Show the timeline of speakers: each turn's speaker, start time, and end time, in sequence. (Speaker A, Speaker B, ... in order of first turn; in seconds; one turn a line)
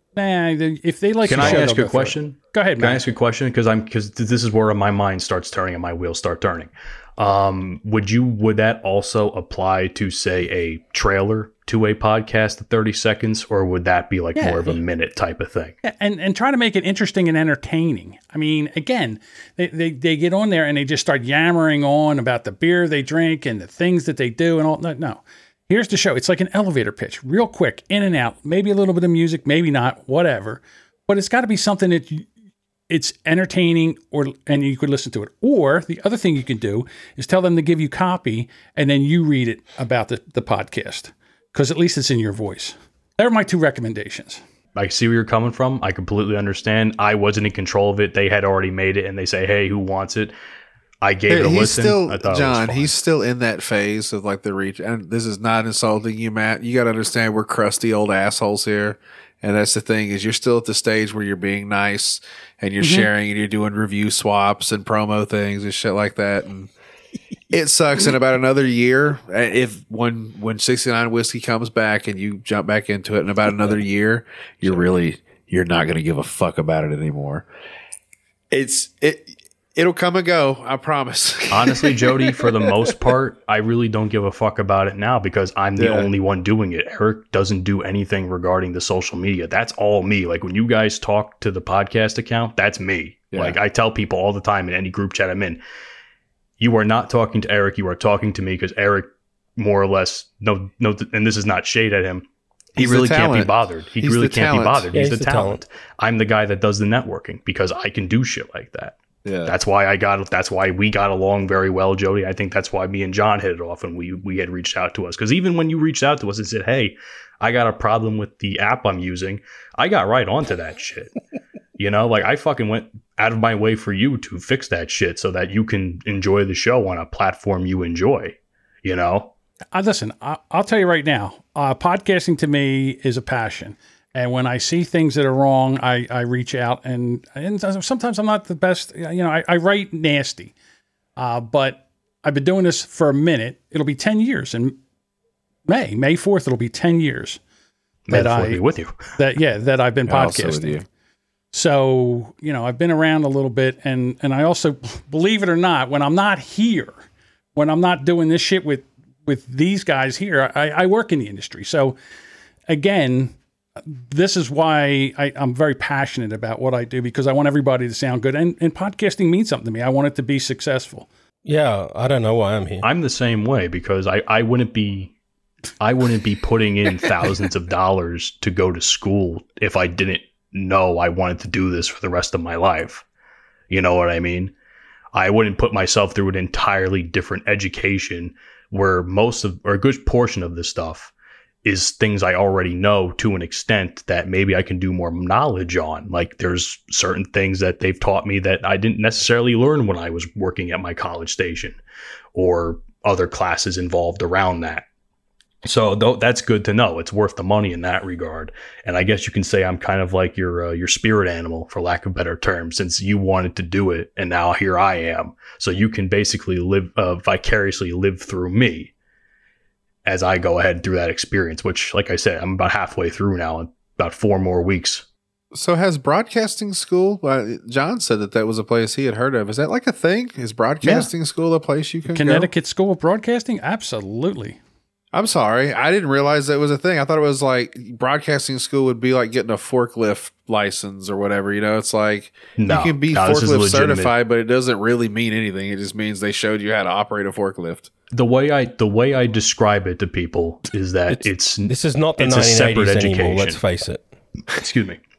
Speaker A: 0.1-3.0
Speaker B: 1.2-15.8
Speaker A: 14.3-14.8
Speaker A: 15.8-32.3
Speaker A: 32.9-44.4
Speaker B: 44.8-50.3
Speaker B: 51.0-52.9
Speaker C: 51.3-66.7
Speaker C: 67.5-77.5
Speaker C: 78.5-82.4
Speaker B: 81.5-95.6
Speaker C: 85.8-86.1
Speaker C: 93.3-93.6
Speaker B: 96.6-102.2
Speaker B: 102.8-121.1
Speaker C: 102.8-104.9
Speaker D: 104.9-105.6
Speaker C: 109.2-109.5
Speaker B: 121.8-129.3
Speaker A: 129.7-140.5
Speaker A: 141.2-144.8
Speaker A: 145.7-147.4
Speaker B: 148.1-149.0
Speaker A: 148.1-148.6
Speaker A: 149.1-150.8
Speaker C: 150.1-150.8
Speaker A: 151.5-156.9
Speaker A: 157.5-162.0
Speaker A: 162.7-163.3
Speaker A: 163.8-171.1
Speaker D: 171.4-172.9
Speaker B: 172.8-175.1
Speaker B: 175.8-183.0
Speaker B: 183.7-184.5
Speaker B: 185.1-191.1
Speaker B: 191.6-201.8
Speaker B: 202.3-204.8
Speaker B: 205.6-218.9
Speaker B: 220.0-225.0
Speaker C: 225.5-232.5
Speaker A: 232.1-234.6
Speaker C: 235.1-247.9
Speaker B: 242.6-244.1
Speaker B: 248.1-253.6
Speaker D: 251.7-254.0
Speaker B: 254.5-255.0